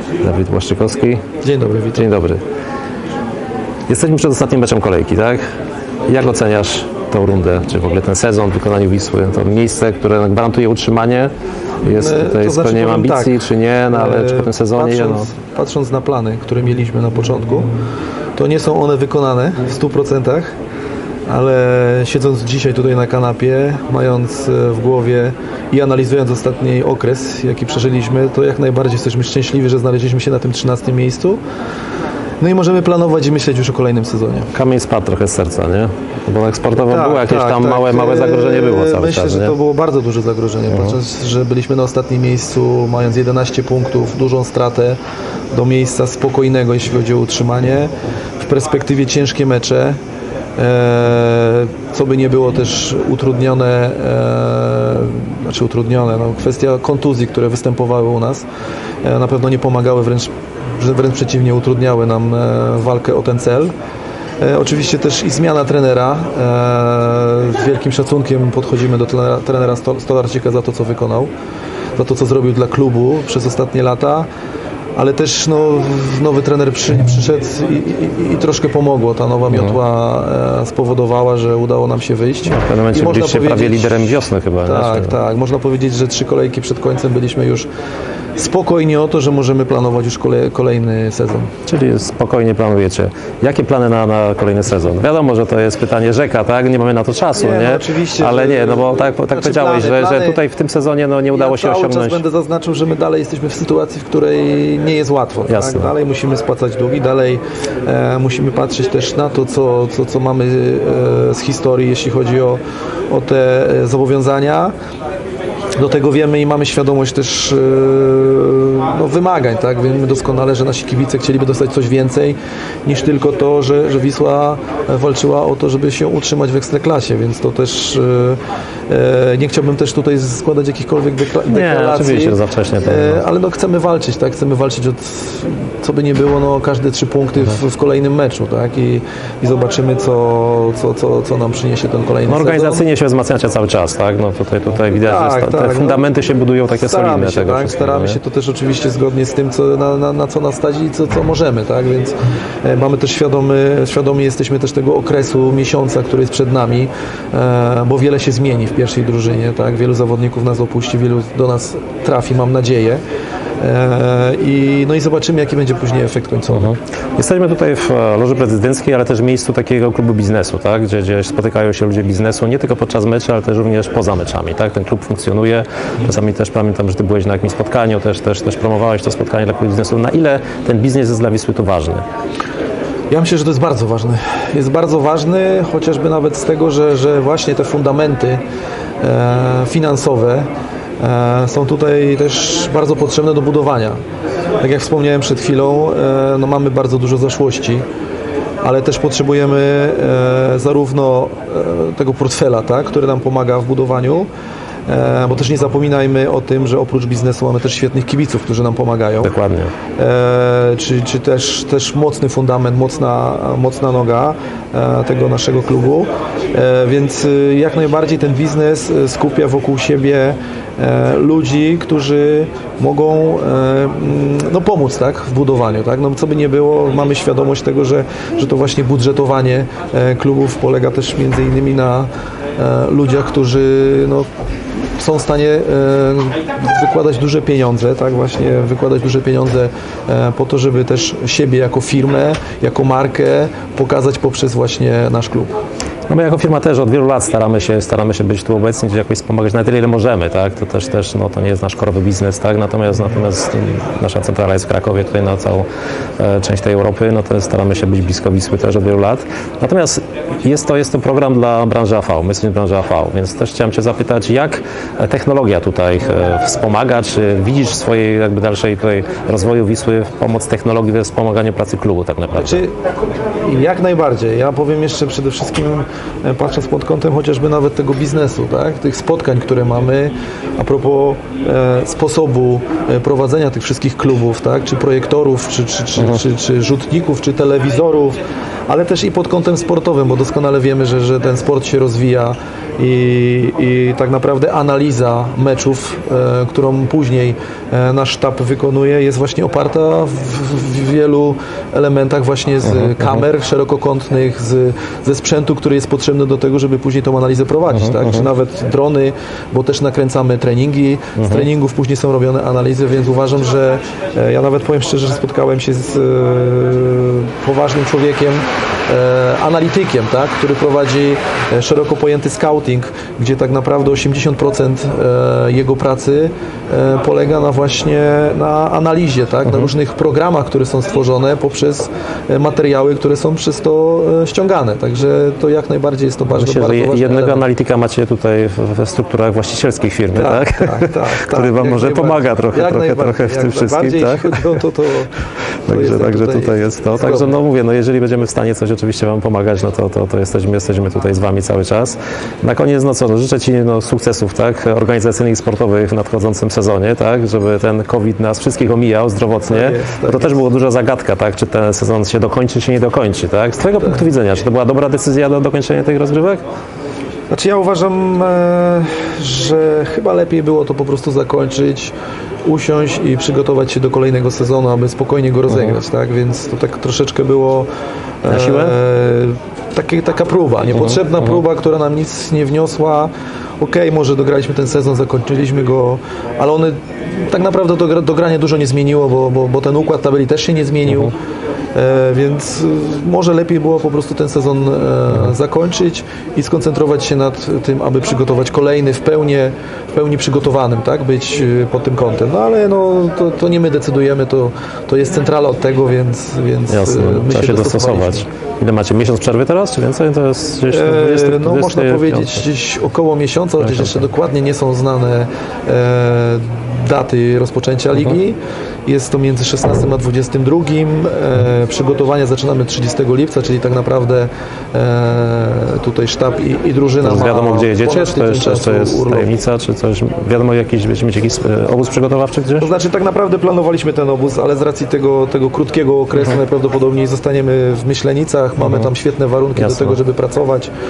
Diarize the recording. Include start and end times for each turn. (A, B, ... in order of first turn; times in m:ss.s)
0:00.2-0:01.2 A
0:01.4-0:02.1 B
0:01.9-0:02.4 A
0:03.9-0:05.4 A
0:06.1-0:15.3 A
0:11.8-0:17.7 B
0:18.4-0:20.5 B
0:21.3-0:31.4 B
0:32.4-0:34.5 B
0:34.5-0:39.5 A
0:36.7-0:45.0 B
0:40.7-0:41.0 A
0:45.5-0:50.0 B
0:50.6-0:58.4 B
0:59.0-1:03.7 B
1:04.4-1:11.3 B
1:12.0-1:14.3 B
1:15.0-1:27.7 B
1:19.5-1:19.8 A
1:22.5-1:25.1 A
1:28.4-1:31.5 B
1:31.7-1:42.2 A
1:37.4-1:40.4 B
1:41.3-1:54.7 B
1:45.4-1:45.9 A
1:55.8-2:22.8 B
2:11.5-2:13.2 A
2:22.3-2:28.2 A
2:25.0-2:43.0 B
2:43.6-2:46.7 B
2:46.5-3:02.0 A
3:03.1-3:08.4 B
3:09.0-3:10.5 B
3:11.0-3:14.0 B
3:14.6-3:17.8 B
3:18.6-3:24.3 B
3:24.9-3:29.3 B
3:29.2-3:29.7 A
3:30.0-3:54.3 B
3:55.0-4:05.5 B
4:06.1-4:15.6 A
4:16.2-4:32.6 A
4:32.4-4:32.8 B
4:33.4-5:37.4 B
5:02.8-5:03.2 A
5:07.7-5:08.3 A
5:11.2-5:11.5 A
5:29.4-5:29.7 A
5:36.3-5:44.6 A
5:40.1-5:47.3 B
5:45.7-6:06.4 A
5:59.5-6:00.5 B
6:07.3-6:11.9 B
6:12.4-6:17.7 B
6:18.2-6:31.1 B
6:18.3-6:18.8 A
6:20.7-6:21.2 A
6:31.7-6:48.3 B
6:46.7-6:52.4 A
6:50.7-7:09.3 B
6:53.6-6:54.0 A
7:07.0-7:12.7 A
7:12.6-7:20.7 B
7:18.6-7:18.9 A
7:19.6-7:20.0 A